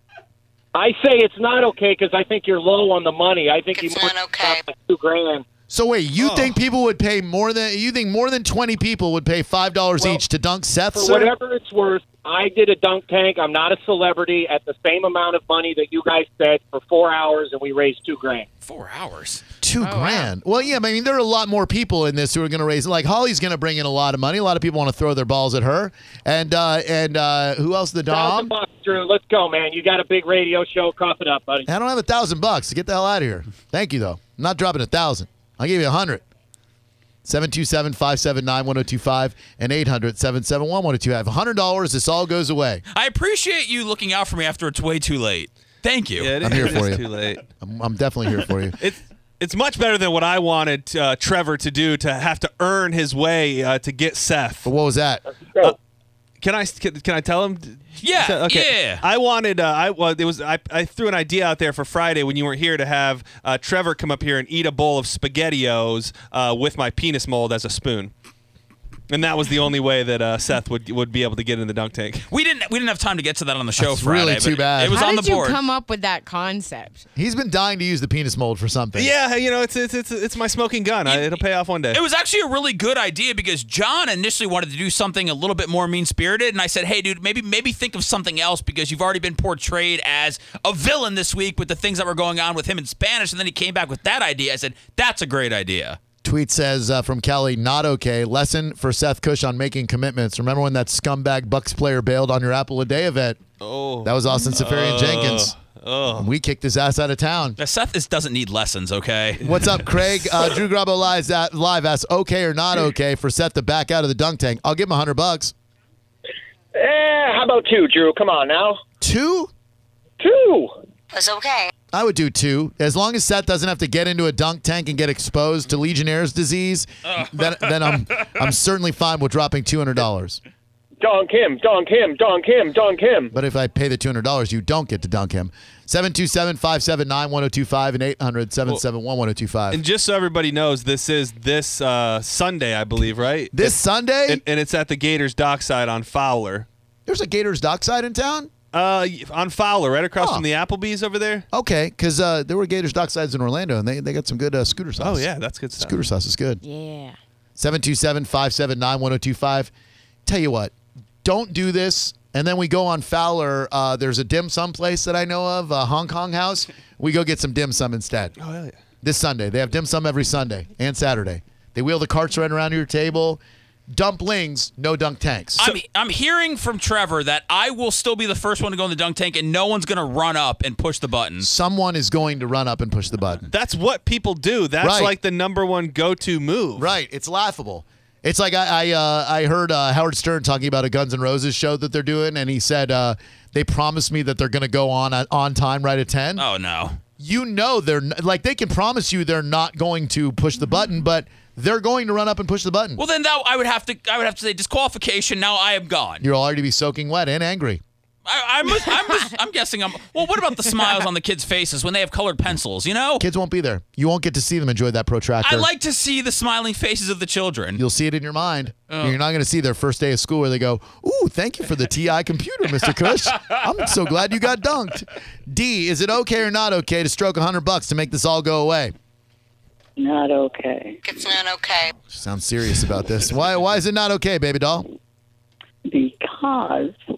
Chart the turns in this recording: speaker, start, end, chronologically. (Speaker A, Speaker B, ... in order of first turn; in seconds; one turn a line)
Speaker A: 0.7-5.4
Speaker B: 3.7-4.6
Speaker C: 5.7-11.3
Speaker D: 6.2-6.5
Speaker A: 10.9-18.5
Speaker E: 18.6-19.4
Speaker C: 19.6-28.5
Speaker F: 19.8-20.3
Speaker A: 28.1-31.7
Speaker C: 31.6-36.2
Speaker C: 37.2-42.8
Speaker E: 42.9-46.7
Speaker D: 46.2-47.5
Speaker C: 46.4-47.0
Speaker C: 47.5-48.8
Speaker D: 48.8-54.7
Speaker C: 54.6-55.2
Speaker D: 56.4-68.1
Speaker E: 58.0-59.0
Speaker D: 69.1-72.2
Speaker E: 72.3-75.6
Speaker C: 73.8-75.0
Speaker F: 74.9-77.0
Speaker C: 77.1-79.1
Speaker D: 78.9-82.0
Speaker E: 81.0-81.4
Speaker E: 81.9-96.0
Speaker C: 96.2-103.4
Speaker D: 103.6-106.3
Speaker C: 104.0-105.5
Speaker C: 106.1-107.6
Speaker E: 107.6-109.4
Speaker C: 109.4-115.5
Speaker A: 116.8-118.8
Speaker C: 119.0-119.5
Speaker A: 120.2-120.7
Speaker B: 121.1-121.7
Speaker C: 121.9-130.4
Speaker E: 127.1-127.9
Speaker A: 131.0-133.3
Speaker C: 133.3-139.8
Speaker D: 139.7-146.7
Speaker C: 143.5-144.4
Speaker C: 147.1-148.5
Speaker D: 148.7-151.4
Speaker C: 150.2-150.4
Speaker C: 151.5-156.6
Speaker D: 155.0-156.0
Speaker F: 156.6-157.2
Speaker C: 157.6-159.7
Speaker C: 160.2-160.7
Speaker C: 161.2-168.3
Speaker D: 168.4-168.7
Speaker C: 169.0-173.4
Speaker C: 173.9-175.6
Speaker E: 175.6-181.5
Speaker C: 181.4-183.5
Speaker D: 183.5-186.9
Speaker C: 184.8-185.1
Speaker C: 186.8-196.4
Speaker E: 196.3-197.0
Speaker C: 197.2-203.0
Speaker E: 203.0-206.2
Speaker C: 206.2-207.8
Speaker E: 208.2-213.2
Speaker C: 213.2-215.7
Speaker E: 215.4-217.8
Speaker C: 217.8-228.9
Speaker E: 218.9-219.1
Speaker G: 230.0-231.0
Speaker B: 231.1-231.9
Speaker C: 232.1-234.9
Speaker G: 235.8-236.9